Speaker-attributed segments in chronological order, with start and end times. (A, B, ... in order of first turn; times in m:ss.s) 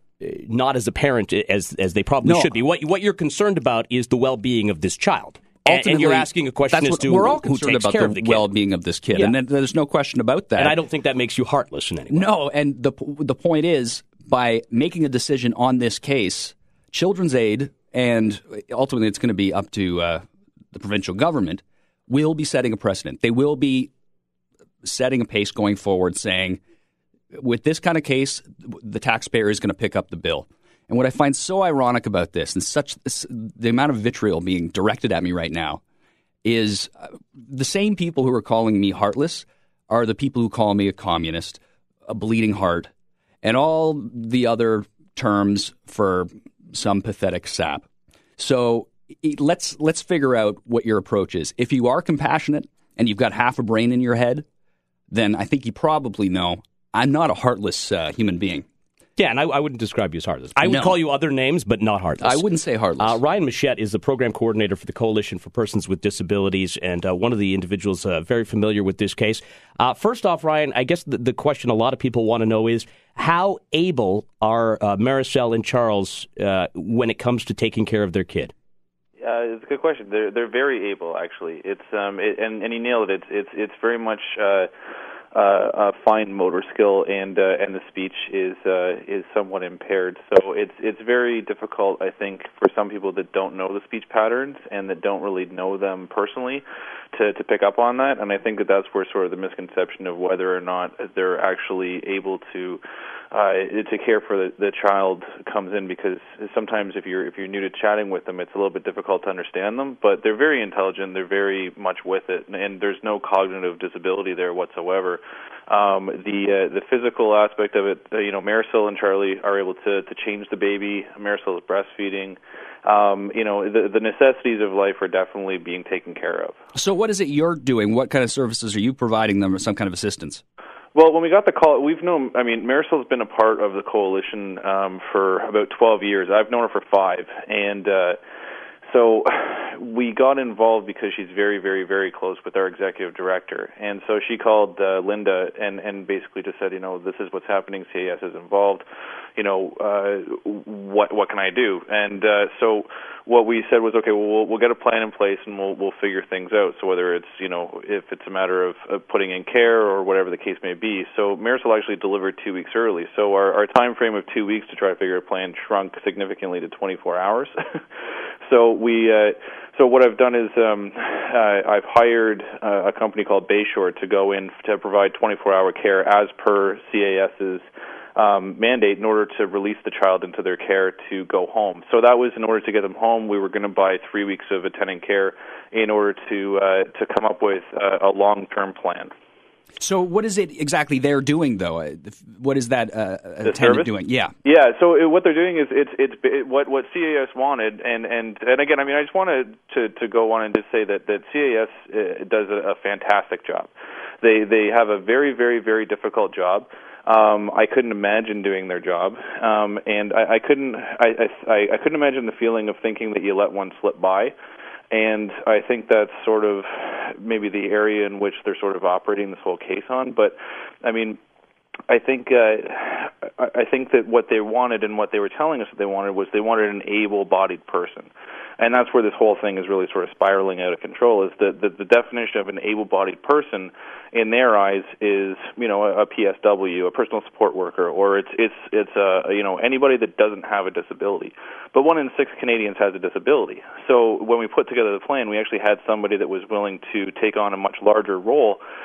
0:00.2-0:08.5 A
0:02.2-0:02.5 B
0:05.6-0:10.8 B
0:10.6-0:12.3 A
0:12.1-0:23.9 B
0:24.8-0:26.6 B
0:27.3-0:35.8 B
0:36.4-0:42.9 B
0:43.4-0:54.4 B
0:55.1-0:58.7 B
0:59.2-1:02.4 A
1:00.6-1:01.0 B
1:02.2-1:03.2 B
1:03.0-1:18.5 A
1:19.2-1:24.7 C
1:25.3-2:06.6 C
2:06.8-2:10.4 B
2:11.0-2:18.2 C
2:18.8-2:28.8 C
2:29.4-2:47.5 C
2:48.4-3:09.1 C
3:09.8-3:14.4 B
3:13.4-3:13.9 C
3:14.4-3:34.4 C
3:34.9-3:41.2 C
3:41.9-4:08.6 C